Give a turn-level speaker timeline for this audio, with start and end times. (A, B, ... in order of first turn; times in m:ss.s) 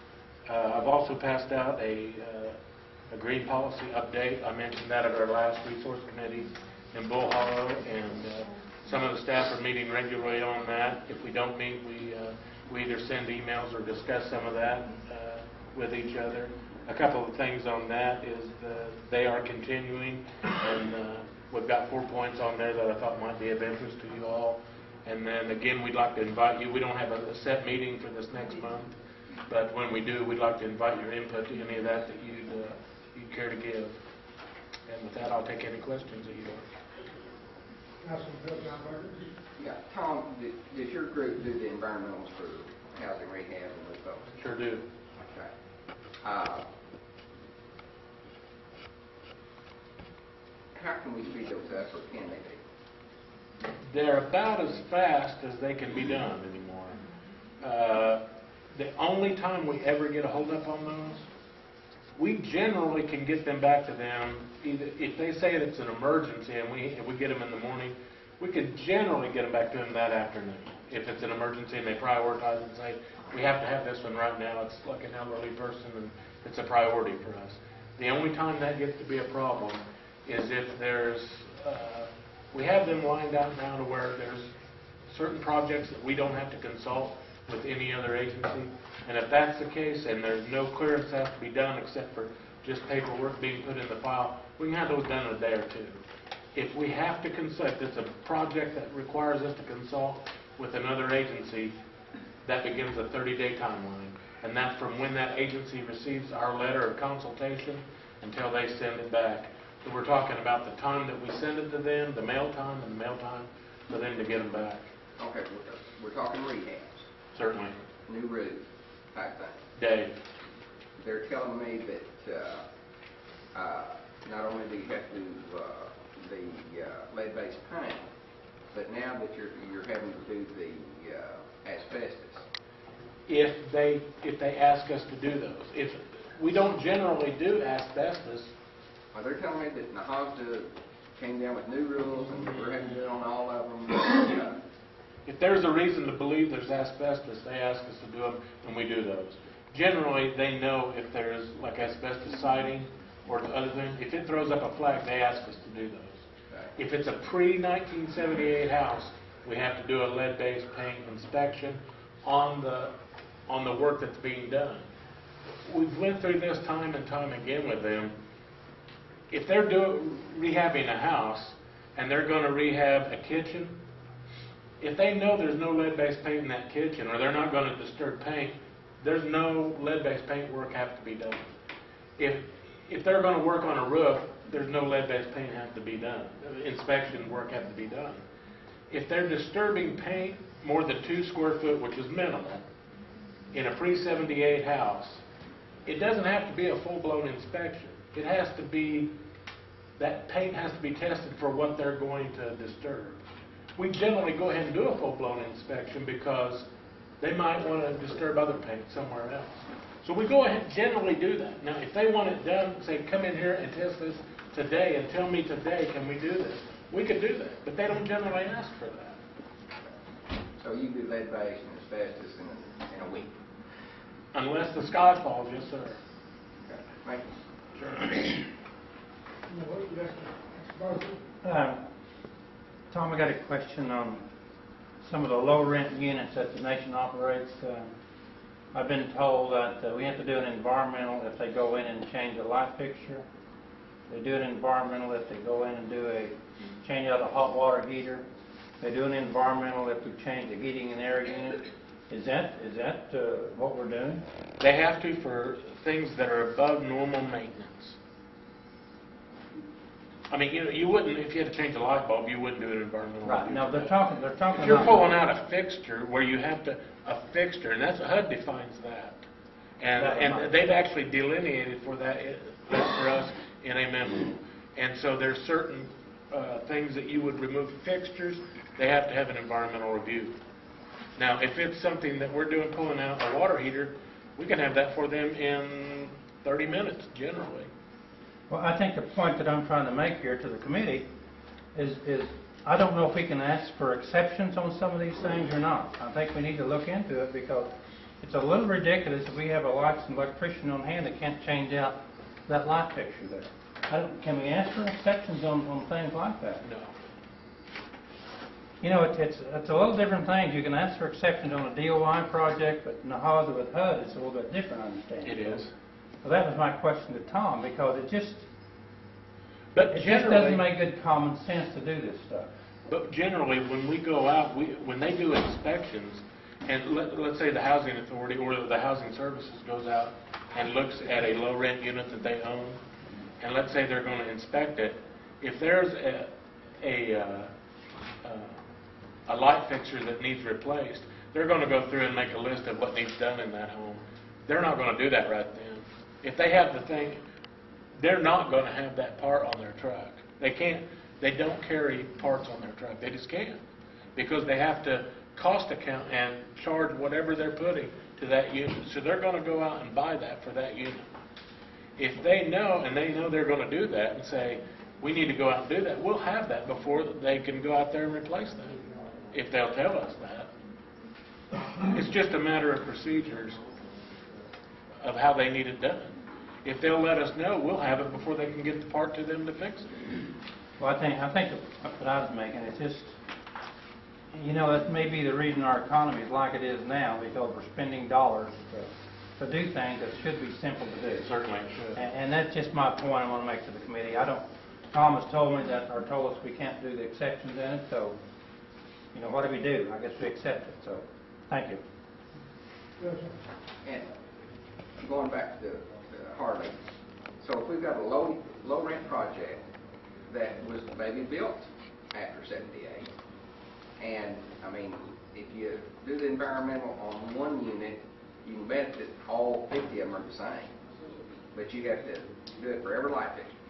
0:00.5-0:02.6 A
0:03.1-0:28.9 A
0:29.5-0:33.9 A
0:34.9-0:36.6 A
0:38.0-0:39.3 B
0:39.6-0:44.2 C
0:44.4-0:44.8 A
0:45.2-0:45.5 C
0:46.2-0:46.6 C
0:50.7-0:52.6 C
0:53.9-0:57.0 A
0:57.6-1:01.2 A
1:02.2-1:24.5 A
1:25.1-1:36.0 A
1:36.5-1:41.7 A
1:42.4-1:54.9 A
1:55.2-1:57.1 C
1:57.3-1:57.7 A
1:58.1-1:59.6 C
1:59.8-2:00.1 A
2:01.0-2:02.6 C
2:03.5-2:08.1 C
2:08.7-2:12.4 C
2:13.3-2:18.5 A
2:19.1-2:24.6 C
2:25.2-2:36.2 A
2:36.8-2:42.9 A
2:43.5-2:44.8 A
2:45.6-2:48.1 A
2:49.3-2:53.7 A
2:54.8-3:01.5 A
3:02.2-3:08.2 A
3:08.9-3:12.6 A
3:13.5-3:15.2 A
3:15.8-3:19.1 A
3:20.0-3:23.2 A
3:23.8-3:26.6 A
3:27.2-3:39.2 A
3:40.6-3:43.3 C
3:44.3-3:46.0 A
3:46.6-3:47.2 C
3:49.5-3:51.2 B
3:51.4-3:51.8 D
3:52.9-3:54.2 D
3:55.0-3:57.9 D
3:58.7-4:03.2 D
4:04.1-4:08.2 D
4:08.8-4:14.2 D
4:14.6-4:18.0 A
4:20.3-4:29.2 A
4:23.2-4:25.0 D
4:29.8-4:40.4 A
4:30.0-4:30.5 D
4:41.2-4:47.7 A
4:48.5-4:51.1 D
4:51.7-5:02.0 D
5:02.5-5:06.6 D
5:06.6-5:06.9 A
5:08.8-5:15.6 D
5:15.2-5:15.7 A
5:16.2-5:18.4 D
5:19.7-5:20.7 A
5:19.9-5:22.5 D
5:22.9-5:32.8 A
5:33.4-5:37.5 A
5:38.2-5:38.6 A
5:39.3-5:47.2 A
5:47.9-5:53.6 A
5:54.2-6:01.0 A
6:02.0-6:08.8 A
6:09.3-6:10.5 A
6:11.8-6:13.6 A
6:15.0-6:19.9 A
6:20.8-6:23.1 D
6:24.3-6:31.3 D
6:31.2-6:32.0 A
6:31.9-6:38.2 D
6:39.1-6:41.8 D
6:43.0-6:43.4 B
6:45.0-6:46.8 C
6:47.4-6:49.6 C
6:50.3-6:53.1 C
6:54.0-7:00.7 C
7:01.5-7:03.5 C